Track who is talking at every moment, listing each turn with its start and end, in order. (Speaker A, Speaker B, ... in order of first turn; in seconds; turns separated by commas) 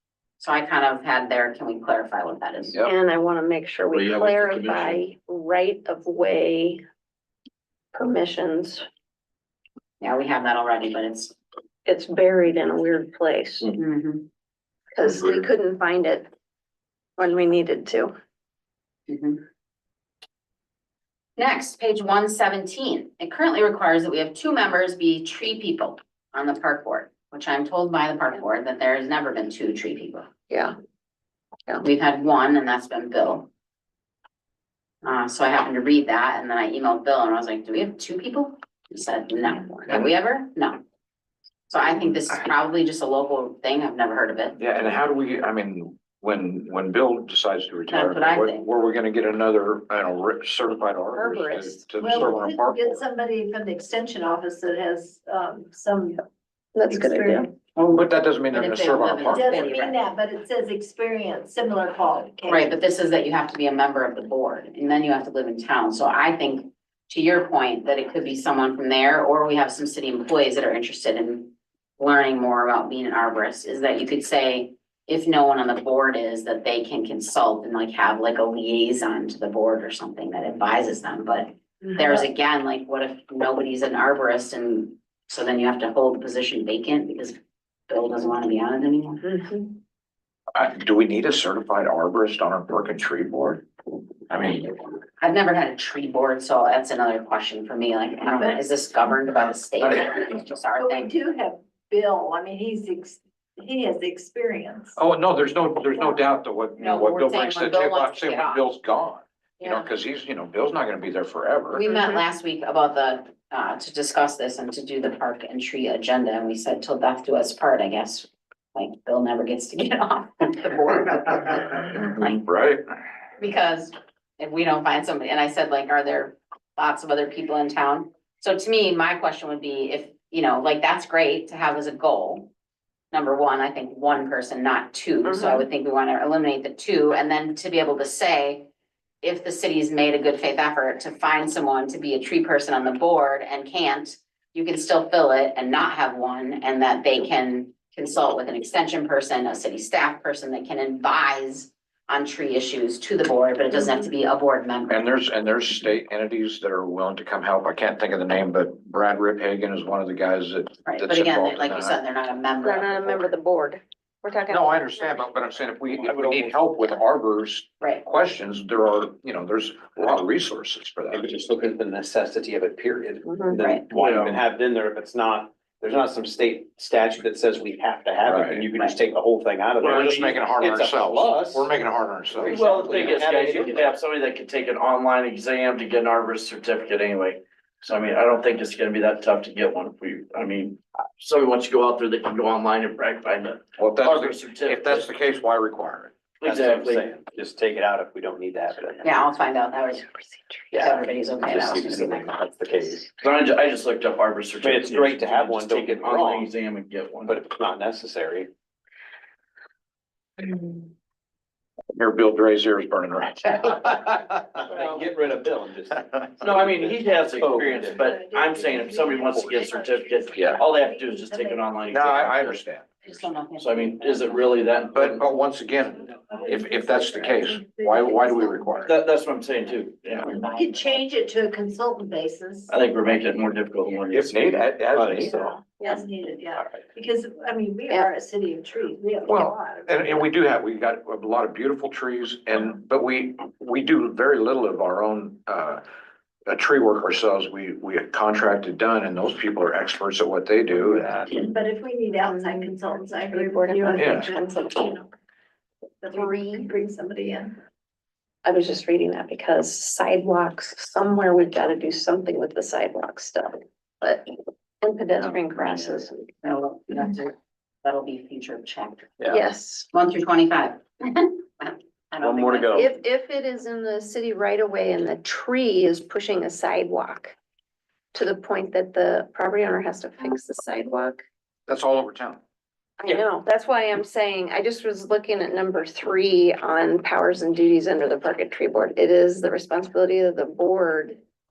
Speaker A: 0.4-2.8, Speaker B: 2.8-6.8, Speaker C: 3.9-5.0, Speaker B: 7.9-8.8, Speaker A: 10.0-11.3, Speaker B: 11.8-13.7, Speaker A: 13.7-14.3, Speaker B: 14.9-16.3, Speaker B: 17.2-18.1, Speaker A: 19.1-19.4, Speaker A: 21.4-30.3, Speaker B: 30.5-30.8, Speaker A: 31.8-33.5, Speaker A: 35.0-40.8, Speaker B: 39.5-39.9, Speaker A: 41.7-44.6, Speaker D: 44.6-53.0, Speaker A: 47.9-48.6, Speaker B: 51.1-51.9, Speaker E: 51.9-56.2, Speaker B: 56.8-57.5, Speaker E: 56.9-57.6, Speaker A: 57.8-60.0, Speaker D: 57.9-59.5, Speaker E: 59.3-62.8, Speaker A: 62.5-87.4, Speaker E: 81.8-82.2, Speaker A: 87.9-89.3, Speaker B: 89.2-89.7, Speaker D: 90.5-93.7, Speaker D: 94.3-94.7, Speaker A: 94.5-101.1, Speaker E: 98.3-98.6, Speaker E: 100.2-105.0, Speaker D: 105.0-111.9, Speaker A: 106.8-108.7, Speaker A: 111.7-122.4, Speaker C: 121.9-122.8, Speaker A: 123.4-132.5, Speaker A: 133.1-138.7, Speaker B: 135.2-135.7, Speaker A: 139.2-155.0, Speaker D: 154.9-162.0, Speaker A: 160.9-163.3, Speaker B: 162.6-165.3, Speaker D: 164.5-171.3, Speaker F: 165.9-166.6, Speaker F: 171.1-181.7, Speaker B: 173.2-173.6, Speaker A: 173.6-173.8, Speaker C: 173.9-174.4, Speaker D: 178.3-178.6, Speaker C: 179.8-180.4, Speaker D: 179.9-182.5, Speaker F: 182.3-183.9, Speaker C: 182.5-195.1, Speaker D: 193.8-196.1, Speaker C: 196.4-197.1, Speaker F: 196.4-199.2, Speaker A: 199.0-200.1, Speaker F: 200.7-203.1, Speaker A: 200.8-202.4, Speaker C: 203.2-207.4, Speaker F: 204.6-206.5, Speaker F: 207.3-208.5, Speaker D: 211.9-214.5, Speaker F: 214.6-218.0, Speaker C: 214.8-215.0, Speaker C: 216.4-222.6, Speaker E: 217.7-222.0, Speaker D: 221.9-222.9, Speaker A: 223.0-224.6, Speaker C: 223.6-225.2, Speaker D: 224.9-228.9, Speaker E: 225.7-228.9, Speaker C: 228.9-230.3, Speaker E: 230.3-232.7, Speaker A: 230.3-231.0, Speaker C: 232.7-234.6, Speaker D: 234.1-235.3, Speaker F: 234.9-235.5, Speaker E: 235.2-240.3, Speaker B: 235.7-236.0, Speaker D: 239.3-245.8, Speaker D: 246.5-251.3, Speaker E: 251.2-255.1, Speaker B: 252.3-254.7, Speaker E: 256.0-257.6, Speaker B: 256.3-256.7, Speaker B: 258.4-266.3, Speaker F: 265.2-266.0, Speaker A: 265.6-269.2, Speaker B: 269.3-269.9, Speaker A: 269.9-272.9, Speaker F: 272.2-273.0, Speaker B: 272.7-277.4, Speaker B: 278.1-281.2, Speaker D: 281.7-282.4, Speaker B: 283.0-291.2